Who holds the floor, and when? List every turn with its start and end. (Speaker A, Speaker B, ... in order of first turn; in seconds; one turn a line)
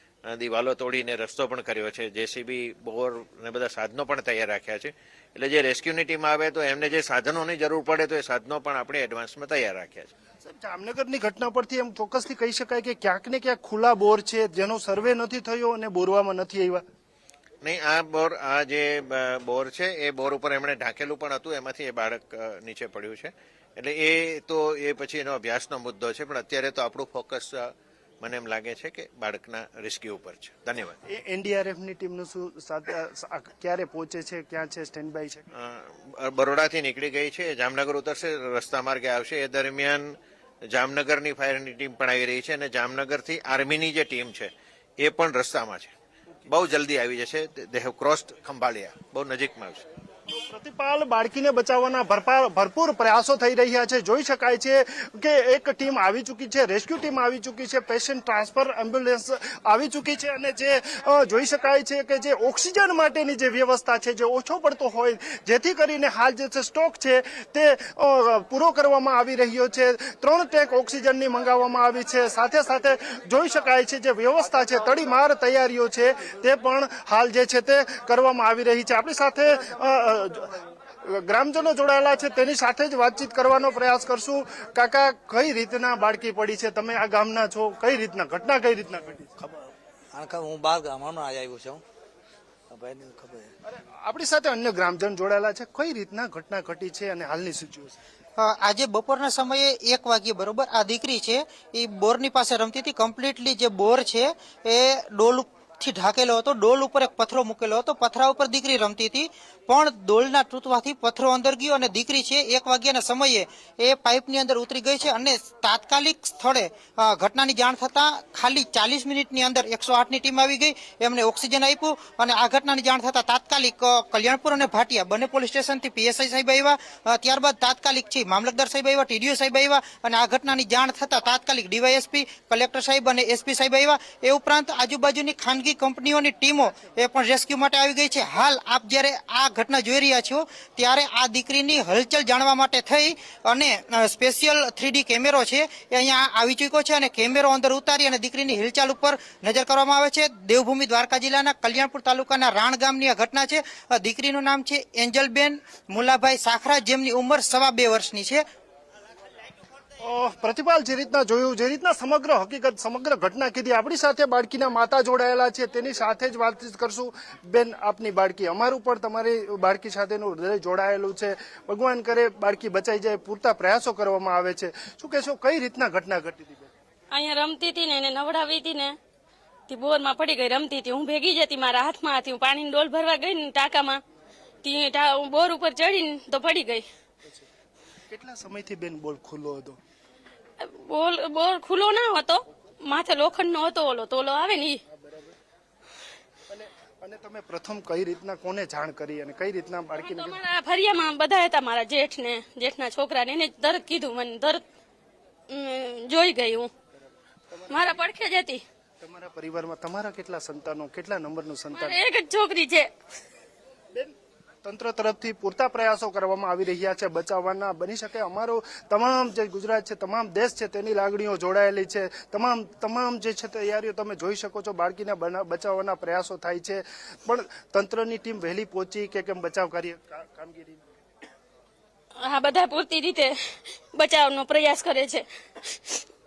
Speaker A: 0.3-10.1
Speaker B: 10.4-16.8
Speaker A: 17.6-27.7
Speaker A: 28.2-31.0
Speaker B: 31.1-35.5
Speaker A: 35.6-40.1
Speaker A: 40.7-44.5
Speaker A: 45.0-45.9
Speaker A: 46.5-49.9
Speaker B: 50.3-80.5
Speaker B: 81.0-89.3
Speaker C: 89.4-91.8
Speaker C: 92.7-93.5
Speaker B: 93.7-98.0
Speaker D: 98.4-158.4
Speaker B: 160.0-176.7
Speaker E: 177.1-179.0
Speaker E: 179.7-184.0
Speaker E: 184.6-186.8
Speaker B: 188.1-189.8
Speaker E: 190.6-194.8
Speaker B: 194.9-195.3
Speaker B: 196.5-200.4
Speaker E: 200.0-204.6
Speaker E: 205.5-206.7
Speaker B: 207.5-208.0
Speaker E: 207.7-208.6
Speaker B: 209.0-212.0
Speaker E: 211.7-212.9
Speaker B: 214.6-230.8
Speaker E: 232.2-233.3
Speaker E: 233.9-236.1